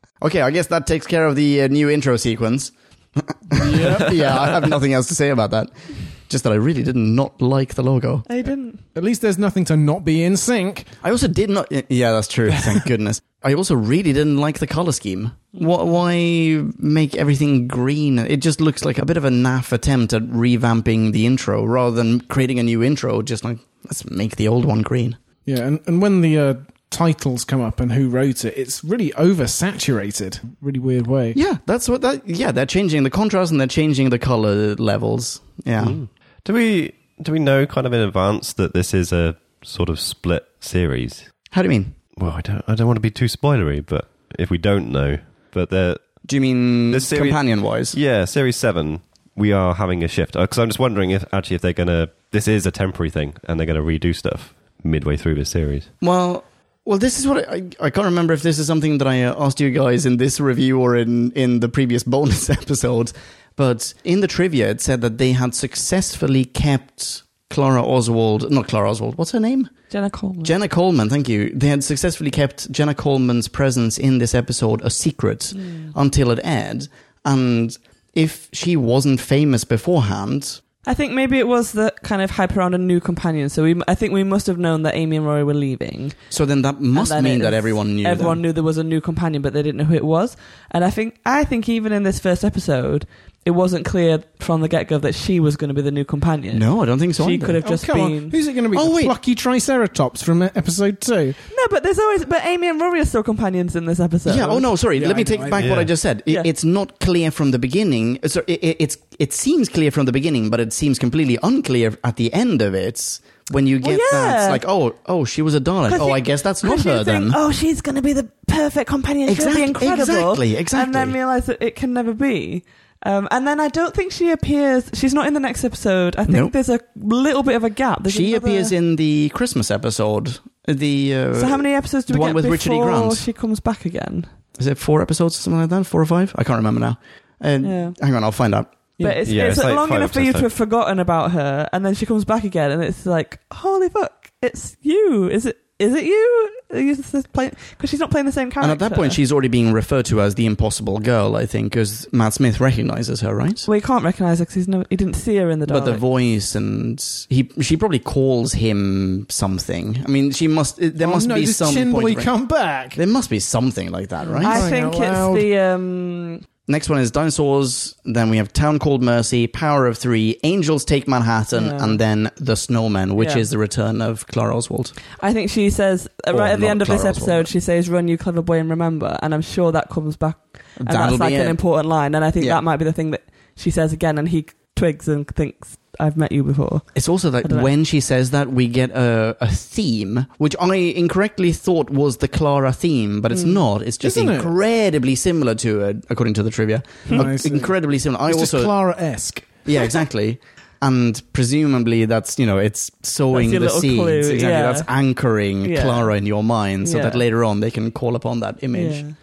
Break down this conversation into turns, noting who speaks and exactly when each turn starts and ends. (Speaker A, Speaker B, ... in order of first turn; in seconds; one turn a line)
Speaker A: 0.2-8.3
Speaker B: 3.5-4.4
Speaker C: 8.3-8.8
Speaker B: 8.9-10.9
Speaker A: 11.0-25.2
Speaker B: 12.5-12.8
Speaker B: 25.5-31.4
Speaker A: 31.3-36.0
Speaker D: 35.8-41.3
Speaker A: 41.5-42.0
Speaker D: 42.2-46.2
Speaker A: 46.2-48.0
Speaker D: 46.9-55.9
Speaker A: 56.0-69.8
Speaker C: 69.9-70.5
Speaker A: 70.4-80.6
Speaker C: 75.5-75.9
Speaker C: 80.8-86.2
Speaker A: 86.3-88.4
Speaker C: 86.9-98.4
Speaker A: 96.5-97.6
Speaker B: 97.6-101.4
Speaker A: 98.7-99.1
Speaker C: 101.5-104.7
Speaker A: 104.3-117.4
Speaker B: 105.0-105.8
Speaker D: 105.6-105.9
Speaker C: 113.8-114.6
Speaker C: 115.9-128.7
Speaker A: 119.3-121.2
Speaker A: 126.3-126.5
Speaker A: 128.1-133.3
Speaker C: 131.3-134.3
Speaker A: 134.6-138.7
Speaker C: 137.6-138.0
Speaker C: 139.0-149.2
Speaker D: 139.3-140.5
Speaker A: 148.6-153.7
Speaker C: 153.6-156.0
Speaker A: 155.7-162.3
Speaker B: 161.0-163.0
Speaker A: 162.9-164.7
Speaker C: 164.2-166.4
Speaker B: 164.4-165.5
Speaker A: 166.7-175.0
Speaker C: 171.5-172.0
Speaker C: 173.2-173.5
Speaker C: 175.2-187.7
Speaker A: 176.3-177.5
Speaker A: 180.8-181.6
Speaker A: 186.9-198.7
Speaker C: 193.3-193.6
Speaker B: 194.0-194.5
Speaker B: 197.1-199.5
Speaker A: 199.6-209.0
Speaker C: 203.3-204.9
Speaker C: 205.6-206.1
Speaker C: 206.8-207.2
Speaker C: 208.7-209.2